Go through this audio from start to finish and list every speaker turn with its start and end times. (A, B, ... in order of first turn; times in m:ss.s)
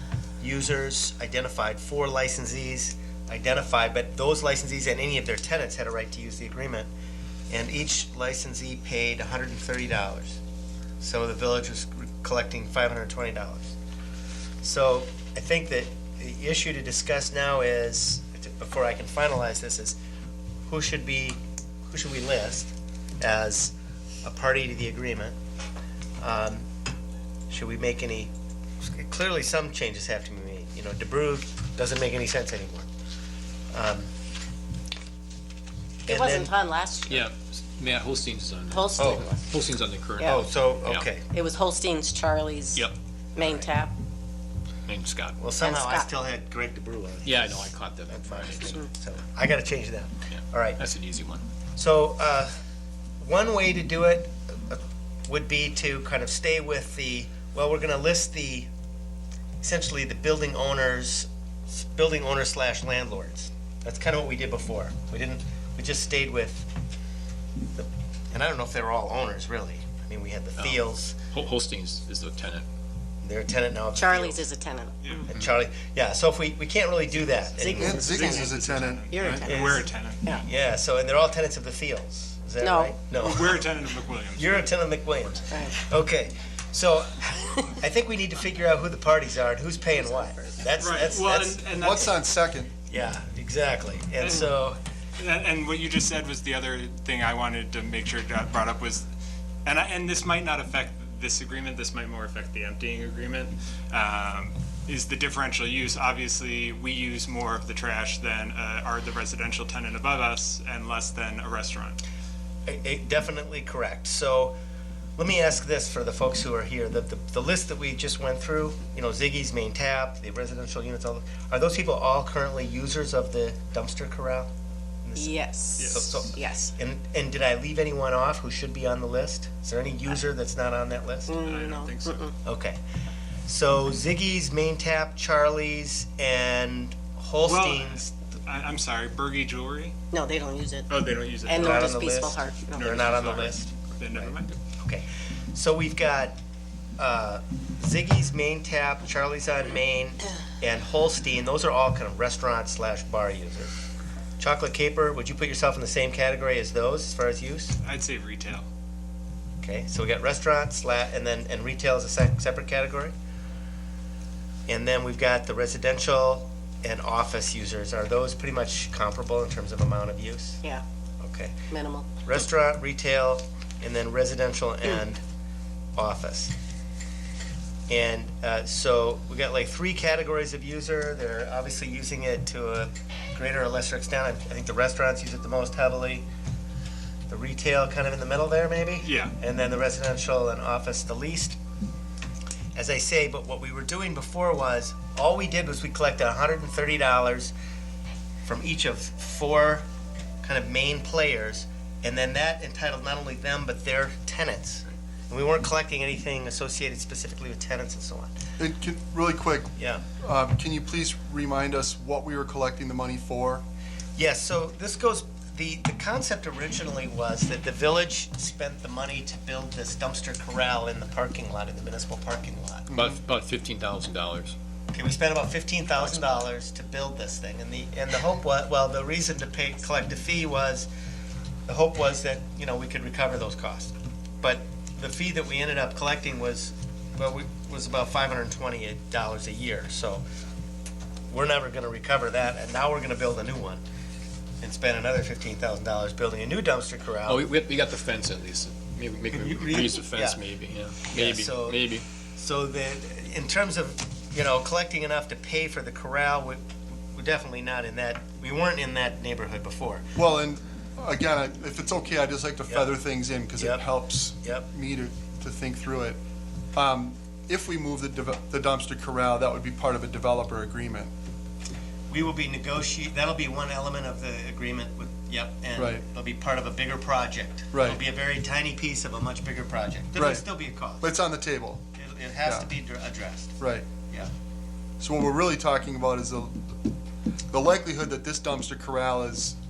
0:00.4-0:06.9 A
0:07.5-0:10.4 A
0:11.0-0:13.8 A
0:14.6-0:20.0 A
0:20.7-0:25.4 A
0:26.2-0:26.7 A
0:27.5-0:28.3 A
0:28.8-0:32.9 A
0:33.7-0:34.1 A
0:36.0-0:36.5 A
0:36.1-0:37.2 B
0:37.1-0:41.1 C
0:38.7-0:39.5 B
0:39.0-0:39.3 A
0:40.2-0:41.3 A
0:41.2-0:42.8 B
0:43.4-0:43.9 B
0:43.4-0:43.7 A
0:44.9-0:45.5 C
0:45.4-0:50.8 A
0:45.6-0:46.1 B
0:47.2-0:48.8 C
0:50.3-0:51.4 C
0:51.8-0:52.5 A
0:53.2-0:58.7 A
0:59.6-1:06.7 A
1:07.8-1:11.2 A
1:10.6-1:12.6 C
1:13.2-1:14.4 A
1:13.9-1:15.2 B
1:15.2-1:18.0 A
1:17.2-1:20.3 D
1:17.6-1:18.6 B
1:17.6-1:19.4 E
1:19.1-1:20.4 B
1:19.5-1:19.8 A
1:20.4-1:23.7 A
1:22.6-1:23.0 B
1:23.2-1:24.7 D
1:24.4-1:31.6 A
1:25.5-1:25.8 B
1:29.9-1:30.6 B
1:30.8-1:32.2 D
1:31.8-1:32.7 E
1:32.9-1:34.8 A
1:34.2-1:34.5 D
1:34.3-1:34.5 B
1:35.2-1:39.1 D
1:39.6-1:52.0 D
1:52.7-1:54.6 A
1:55.2-2:04.5 A
2:05.0-2:11.3 A
2:05.2-2:06.8 B
2:05.8-2:06.3 D
2:11.3-2:12.4 B
2:11.4-2:12.3 D
2:12.4-2:12.8 A
2:13.4-2:18.1 A
2:17.4-2:19.9 D
2:20.1-2:20.9 B
2:20.9-2:22.0 D
2:21.4-2:22.9 B
2:21.6-2:26.4 A
2:22.7-2:24.6 D
2:27.0-2:33.7 A
2:34.4-2:37.8 A
2:37.8-2:38.7 D
2:39.6-2:43.1 A
2:44.7-2:50.6 A
2:51.2-2:51.6 A
2:51.7-2:52.2 B
2:52.2-2:55.2 A
2:56.0-2:56.5 A
2:57.9-3:06.2 A
3:07.3-3:11.6 A
3:09.0-3:09.3 D
3:12.8-3:17.5 A
3:18.4-3:19.8 A
3:20.4-3:28.3 A
3:28.6-3:33.6 E
3:29.8-3:30.0 A
3:34.2-3:43.0 A
3:42.9-3:44.5 C
3:44.9-3:50.9 A
3:46.0-3:46.4 C
3:51.7-4:00.2 A
4:01.3-4:03.8 A
4:04.6-4:07.5 A
4:07.2-4:12.0 C
4:09.3-4:10.4 A
4:11.1-4:16.6 A
4:17.2-4:20.0 A
4:20.2-4:26.2 E
4:23.6-4:23.8 A
4:26.8-4:31.1 E
4:32.1-4:41.1 A
4:35.8-4:36.0 E
4:37.7-4:38.0 E
4:40.2-4:41.8 E
4:42.0-4:43.6 A
4:42.4-4:42.7 E
4:43.6-4:43.9 E
4:45.0-4:46.6 E
4:47.5-4:49.6 E